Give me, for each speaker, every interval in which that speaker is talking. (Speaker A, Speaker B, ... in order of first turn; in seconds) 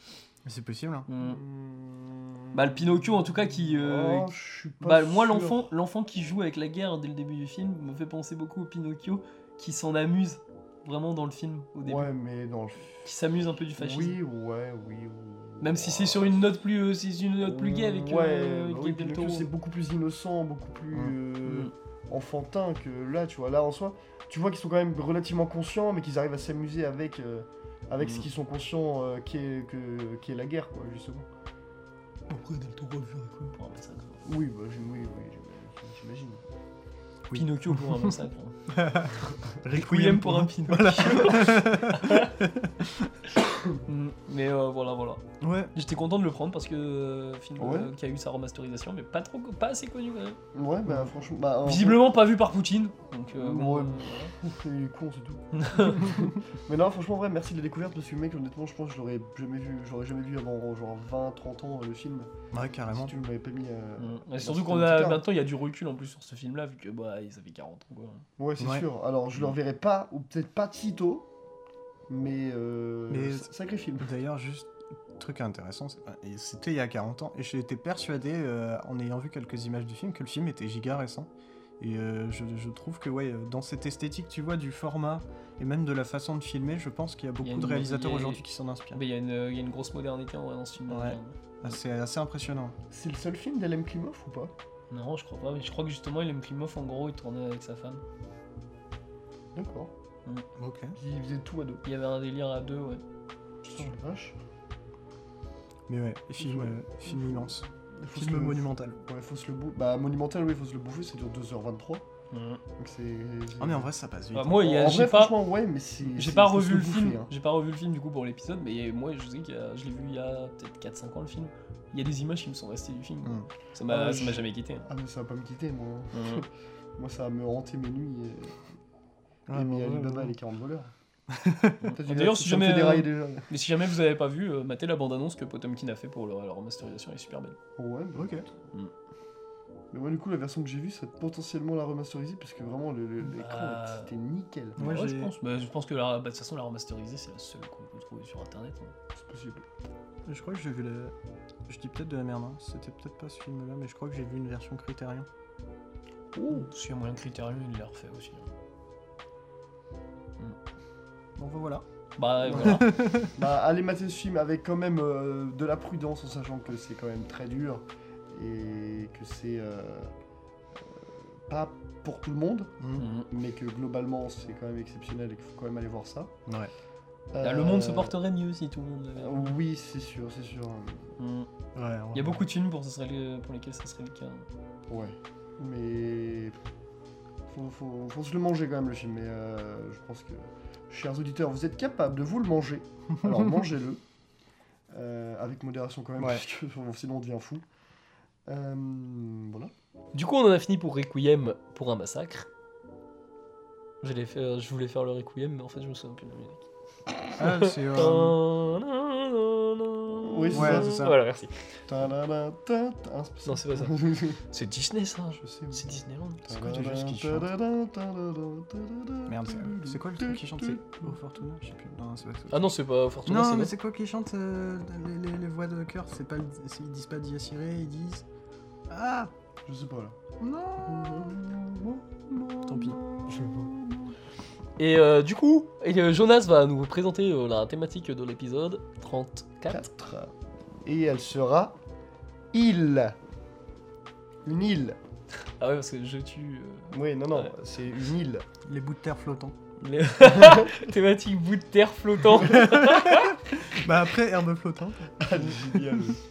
Speaker A: 0.5-1.1, 37.3-38.1, 38.7-43.2, 45.4-45.7, 62.5-63.1, 68.6-68.9, 73.1-73.5, 74.0-89.0, 90.9-92.8, 100.6-101.0, 105.9-109.0, 113.6-114.6, 123.2-123.5, 129.5-130.3, 131.3-131.8, 138.2-138.5, 144.8-145.3, 150.3-151.1, 151.7-155.3, 161.4-161.8, 162.4-163.4, 172.8-173.1, 176.5-176.7, 181.7-182.4, 193.2-193.5, 196.2-196.4, 207.4-208.4, 210.5-211.2, 216.6-217.5, 219.3-222.7, 223.3-228.3, 228.9-229.3, 230.4-231.4, 248.7-249.6, 252.5-256.0
Speaker B: 1.1-1.4, 2.5-12.1, 13.0-14.2, 15.6-19.5, 21.4-21.7, 28.0-28.3, 32.3-34.2, 37.3-38.5, 39.7-42.4, 43.9-45.2, 45.7-50.4, 51.6-54.3, 55.5-56.2, 64.0-68.2, 87.4-91.7, 94.9-98.0, 101.8-103.0, 112.3-112.6, 114.3-115.3, 116.1-124.9, 126.1-126.4, 131.8-137.6, 143.2-144.1, 144.8-148.9, 156.5-158.5, 162.2-162.9, 173.0-173.3, 177.4-179.6, 181.2-181.5, 182.1-184.5, 200.1-202.5, 204.0-206.7, 207.3-211.7, 213.5-216.9, 222.5-223.7, 232.7-233.7, 234.8-239.9, 245.4-247.5, 249.8-253.8
Speaker C: 1.2-3.0, 3.8-5.7, 11.8-13.1, 13.8-16.4, 17.4-31.3, 34.2-36.4, 47.6-47.9, 50.5-52.0, 53.3-62.3, 62.9-65.2, 68.4-71.3, 72.1-74.1, 92.9-94.5, 99.5-99.9, 101.0-101.8, 103.7-104.4, 106.4-112.0, 112.8-113.9, 114.6-117.3, 123.8-128.7, 129.5-130.9, 131.9-133.5, 137.8-138.4, 139.9-144.9, 149.2-149.7, 156.3-156.7, 162.5-170.1, 170.8-172.7, 173.3-176.3, 177.3-178.2, 179.2-181.2, 184.9-186.6, 187.5-194.0, 194.9-197.6, 198.5-199.7, 210.2-211.0, 211.9-214.4, 215.4-215.8, 216.5-221.1, 229.7-234.1, 239.7-240.3, 240.8-241.8, 242.5-243.2, 244.4-245.0, 246.9-248.4, 250.3-250.7, 255.2-256.2